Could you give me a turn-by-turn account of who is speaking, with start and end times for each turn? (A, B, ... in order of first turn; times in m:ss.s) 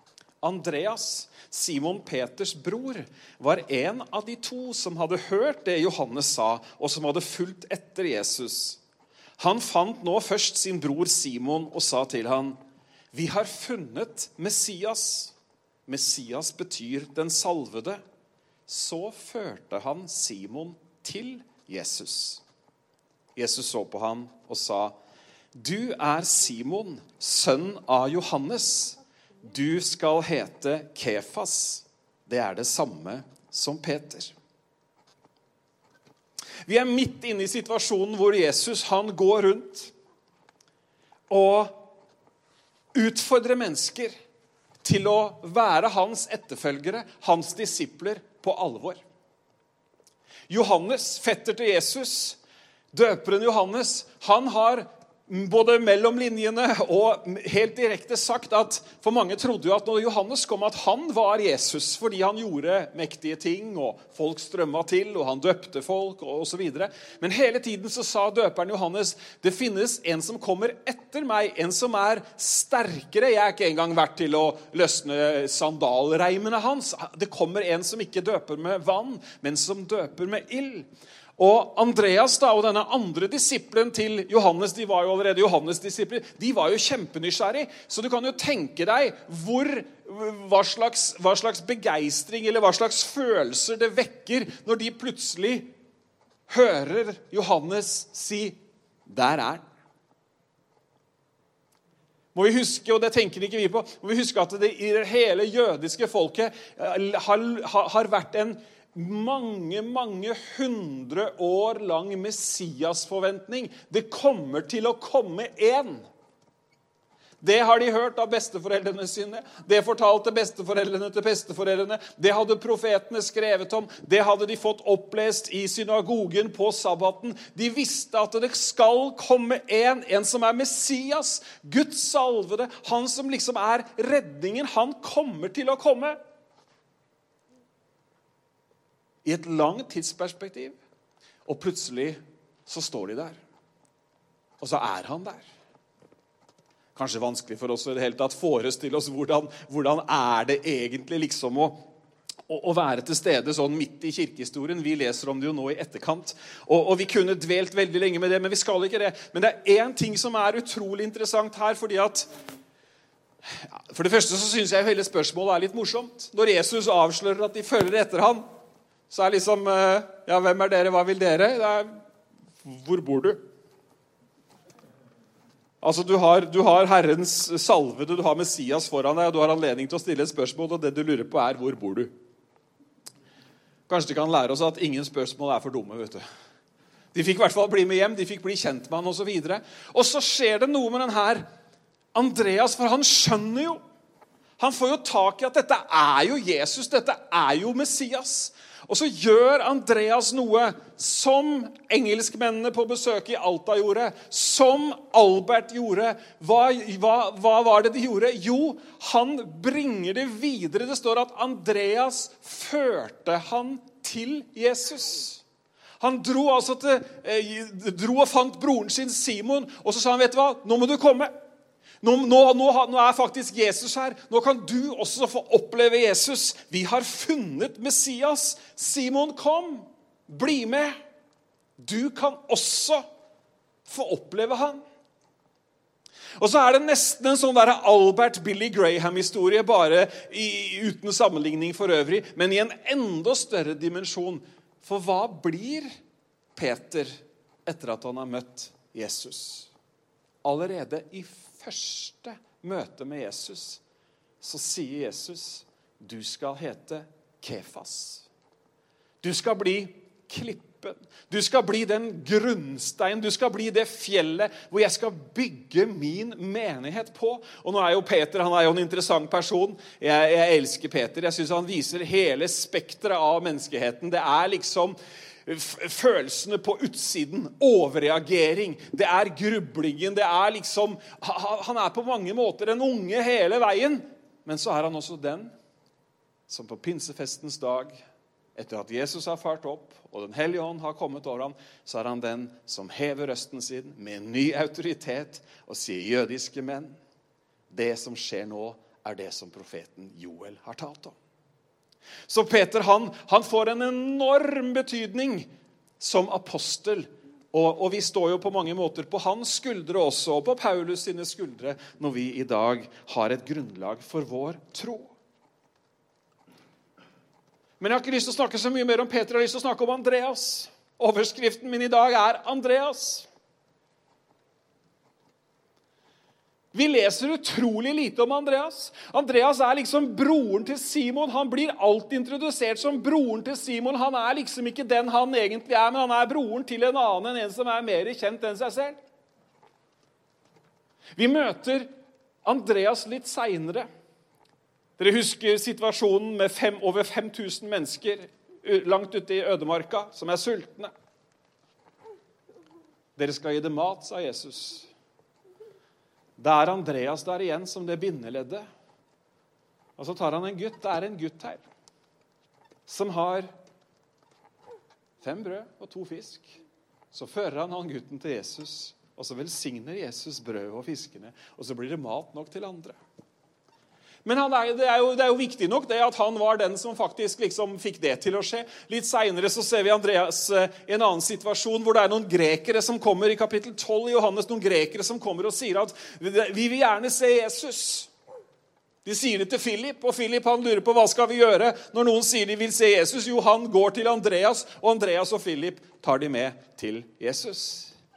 0:00.4-0:08.8 A
0:09.4-0:12.6 A
0:13.1-0:15.3 A
0:15.9-0:18.0 A
0:18.7-0:22.4 A
0:23.4-0:24.9 A
0:25.5-0:34.3 A
0:36.6-0:39.9 A
0:41.3-0:41.9 A
0:42.9-0:44.1 A
0:44.8-0:49.0 A
0:50.5-0:52.4 A
0:52.9-1:20.9 A
1:21.4-1:35.7 A
1:36.5-1:39.6 A
1:42.3-1:56.0 A
1:57.4-2:16.2 A
2:19.2-2:20.8 A
2:21.4-2:23.4 A
2:24.6-2:25.4 A
2:26.9-2:31.9 A
2:32.5-2:42.3 A
2:43.5-2:48.4 A
2:49.1-2:52.0 A
2:52.6-2:53.4 A
2:55.8-3:02.1 A
3:03.9-3:06.2 A
3:07.1-3:11.4 A
3:12.1-3:13.8 A
3:14.6-3:35.4 A
3:36.0-3:41.3 A
3:42.0-3:51.0 A
3:51.8-3:53.0 A
3:53.8-3:54.8 A
3:56.4-4:05.9 A
4:06.6-4:09.7 A
4:10.4-4:13.8 A
4:14.4-4:18.3 A
4:19.2-4:45.5 A
4:46.5-4:47.9 A
4:48.6-4:57.0 A
4:57.7-5:01.1 A
5:02.3-5:05.5 A
5:06.0-5:15.1 A
5:17.8-5:23.3 A
5:26.7-5:39.0 A
5:41.2-5:41.9 A
5:42.4-5:43.9 A
5:45.0-5:50.9 A
5:53.2-5:54.9 A
5:56.4-5:58.7 A
6:00.0-6:01.6 A
6:02.9-6:03.5 A
6:05.2-6:06.6 A
6:07.1-6:13.0 A
6:14.2-6:28.1 A
6:29.0-6:37.9 A